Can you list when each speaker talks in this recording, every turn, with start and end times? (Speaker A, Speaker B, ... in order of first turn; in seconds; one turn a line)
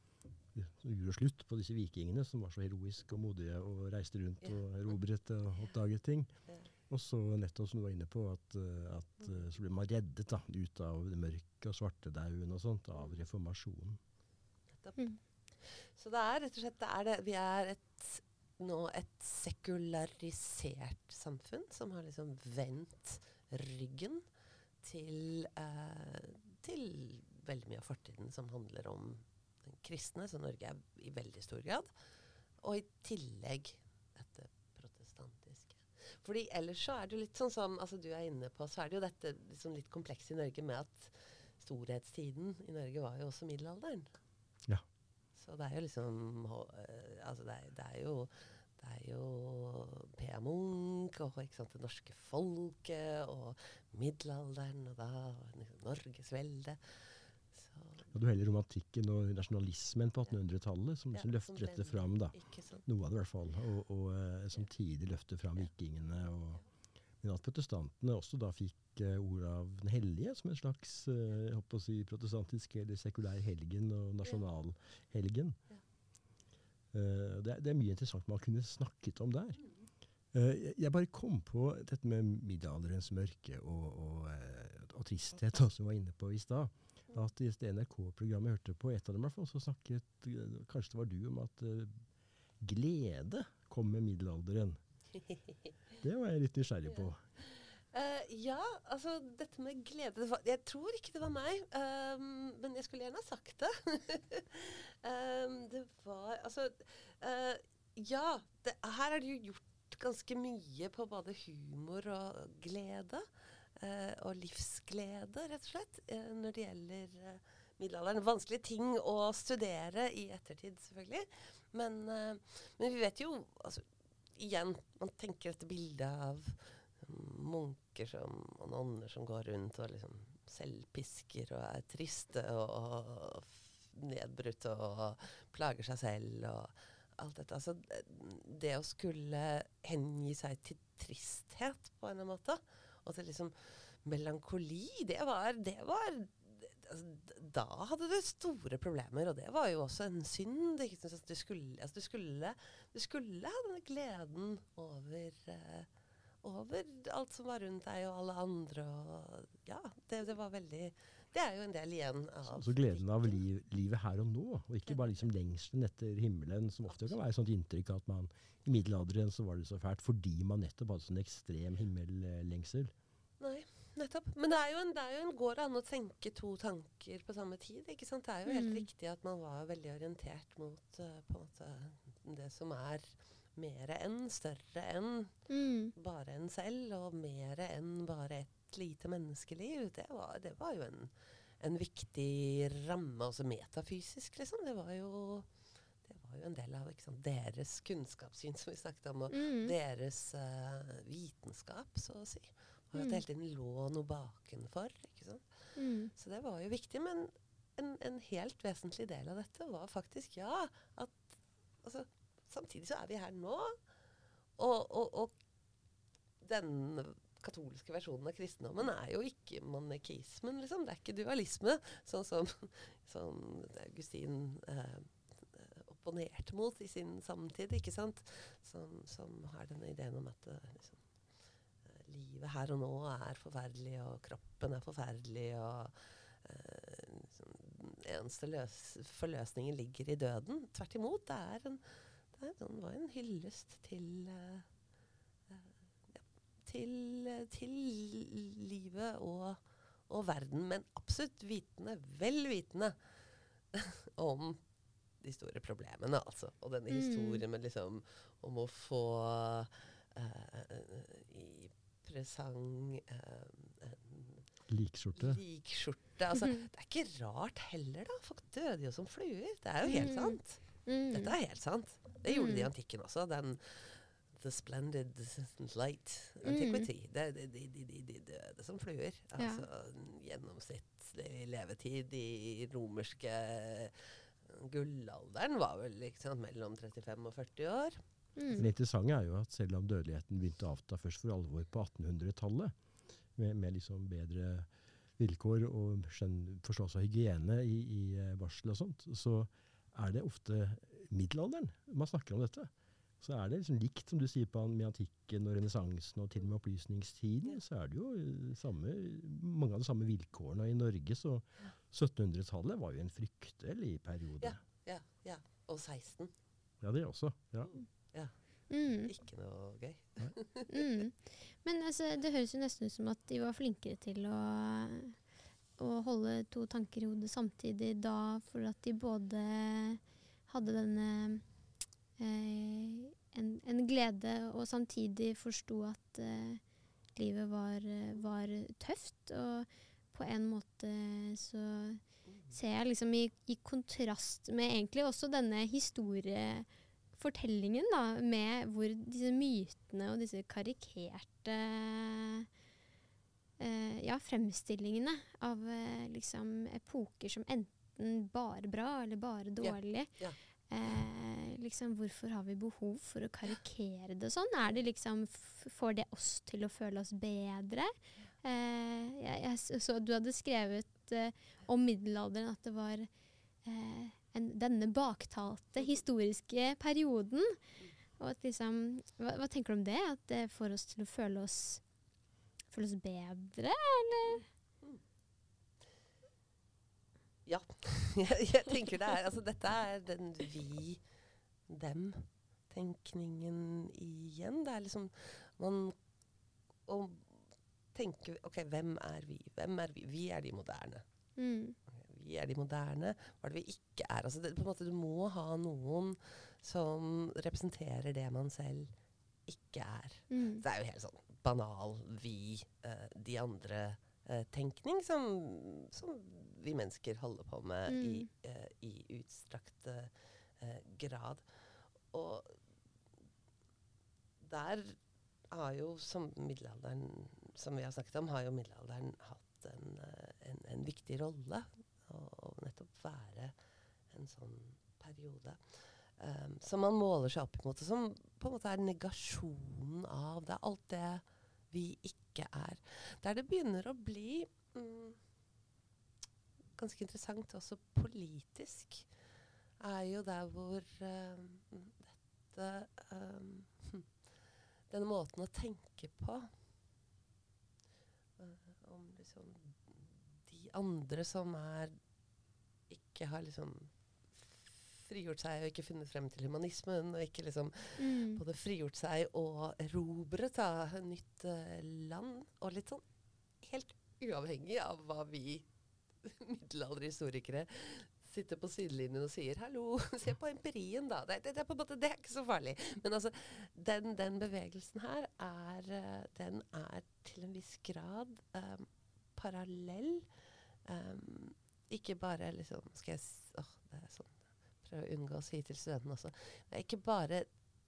Speaker A: 0.5-6.3
Speaker A: 6.9-14.0
Speaker B: 13.0-13.2
Speaker B: 15.6-24.2
Speaker B: 24.8-31.9
Speaker B: 32.6-44.1
Speaker B: 45.4-57.0
Speaker B: 57.5-58.1
Speaker A: 58.1-66.6
Speaker B: 61.1-62.9
Speaker A: 67.2-75.6
Speaker A: 76.9-79.6
Speaker B: 79.6-79.9
Speaker A: 80.3-92.0
Speaker A: 92.6-94.8
Speaker B: 95.2-95.6
Speaker A: 96.0-97.2
Speaker B: 97.4-123.8
Speaker B: 124.4-155.9
Speaker B: 156.4-163.4
Speaker A: 162.4-172.9
Speaker B: 164.9-165.3
Speaker B: 166.9-167.2
Speaker B: 173.4-185.3
Speaker C: 178.5-178.9
Speaker C: 185.5-185.9
Speaker B: 186.0-195.5
Speaker B: 196.0-213.8
Speaker C: 199.3-199.7
Speaker C: 202.9-203.2
Speaker C: 205.8-206.1
Speaker B: 214.6-215.3
Speaker B: 216.4-231.0
Speaker B: 231.8-241.8
Speaker B: 242.3-244.7
Speaker B: 245.5-253.0
Speaker B: 253.7-254.6
Speaker B: 255.2-264.4
Speaker C: 256.9-257.4
Speaker A: 264.7-265.4
Speaker B: 265.2-288.0
Speaker C: 269.9-271.3
Speaker C: 272.3-272.7
Speaker C: 276.4-276.9
Speaker C: 279.4-279.6
Speaker C: 288.4-288.7
Speaker A: 288.6-292.7
Speaker A: 293.4-314.6
Speaker B: 314.4-316.3
Speaker A: 316.8-317.7
Speaker B: 317.7-318.3
Speaker C: 318.7-319.1
Speaker B: 319.1-320.8
Speaker C: 320.7-325.1
Speaker C: 325.8-331.4
Speaker C: 332.2-336.6
Speaker C: 337.1-352.5
Speaker B: 342.3-342.6
Speaker C: 353.6-360.1
Speaker B: 359.6-360.4
Speaker C: 360.7-373.1
Speaker C: 373.6-377.6
Speaker C: 378.2-381.8
Speaker C: 382.7-384.4
Speaker B: 384.3-385.0
Speaker B: 387.5-391.0
Speaker B: 391.7-396.0
Speaker B: 396.9-397.4
Speaker B: 397.9-401.0
Speaker C: 401.4-401.8
Speaker B: 401.9-408.9
Speaker B: 409.5-421.4
Speaker C: 410.3-410.6
Speaker C: 417.9-418.3
Speaker B: 422.1-422.6
Speaker B: 424.4-425.0
Speaker B: 425.5-433.6
Speaker B: 434.1-435.6
Speaker B: 436.2-445.2
Speaker B: 446.8-449.1
Speaker B: 449.8-454.1
Speaker B: 454.9-456.5
Speaker B: 458.4-462.0
Speaker B: 462.9-473.0
Speaker C: 468.0-468.4
Speaker B: 473.6-475.7
Speaker B: 476.2-490.3
Speaker B: 490.9-497.5